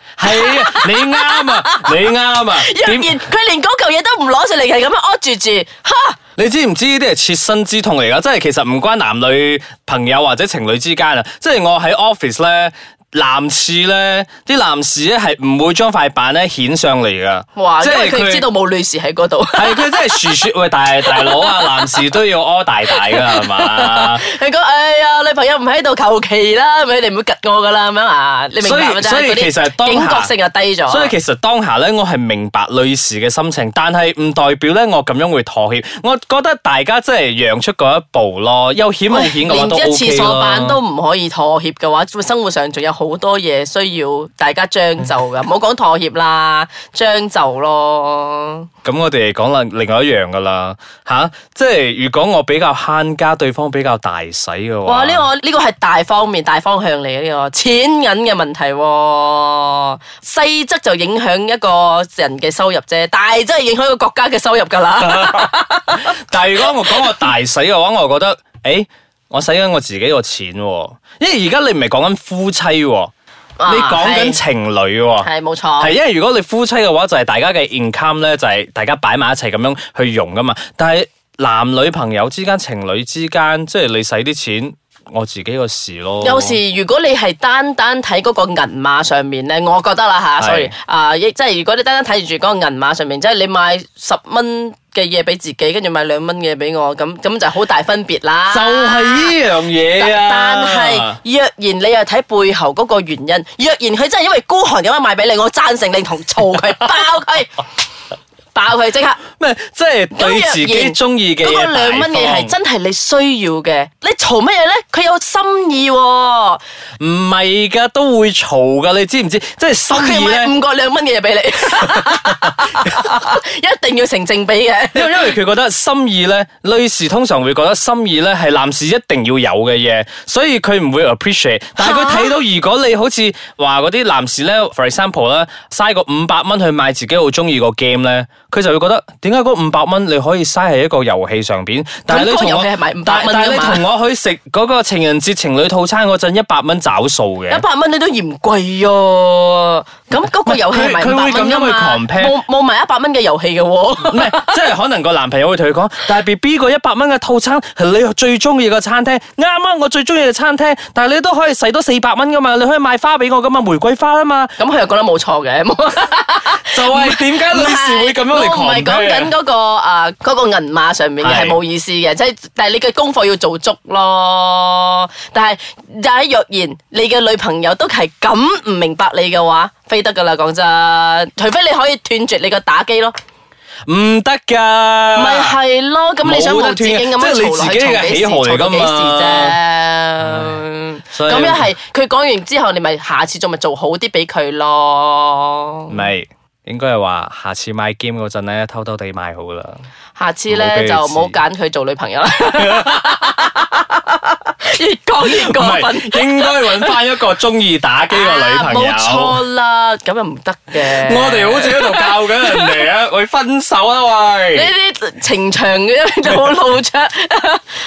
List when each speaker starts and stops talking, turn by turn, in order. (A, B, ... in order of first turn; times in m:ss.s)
0:00.2-0:03.2 A
0:00.2-0:02.0 B
0:02.5-0:06.2 B
0:06.4-0:18.4 A
0:17.6-0:20.4 B
0:19.5-0:24.2 A
0:21.0-0:22.0 B
0:22.9-0:31.1 B
0:28.6-0:30.3 A
0:30.9-0:40.8 A
0:39.1-0:48.7 B
0:48.8-0:55.3 A
0:54.8-1:07.0 B
1:05.0-1:13.1 A
1:13.6-1:14.4 B
1:13.6-1:15.3 A
1:15.2-1:15.9 B
1:15.8-1:26.6 A
1:26.2-1:39.4 B
1:30.4-1:30.7 A
1:38.5-1:41.2 A
1:39.9-1:47.6 B
1:48.5-1:49.2 B
1:49.3-1:52.5 A
1:50.1-1:56.6 B
1:57.0-2:00.5 A
1:59.9-2:05.3 B
2:04.9-2:27.6 A
2:11.8-2:12.3 B
2:22.1-2:23.8 B
2:27.5-2:34.6 B
2:30.4-2:32.4 A
2:34.0-2:44.5 A
2:44.6-3:03.2 B
2:46.6-2:49.3 A
2:51.2-2:51.6 A
3:03.9-3:05.6 A
3:05.1-3:16.0 B
3:06.2-3:09.6 A
3:10.2-3:10.6 A
3:11.1-3:11.7 A
3:15.9-3:19.8 A
3:20.2-3:27.0 B
3:20.5-3:21.4 A
3:22.5-3:23.4 A
3:25.2-3:29.4 A
3:28.1-3:32.8 B
3:30.8-3:34.7 A
3:34.5-3:37.8 B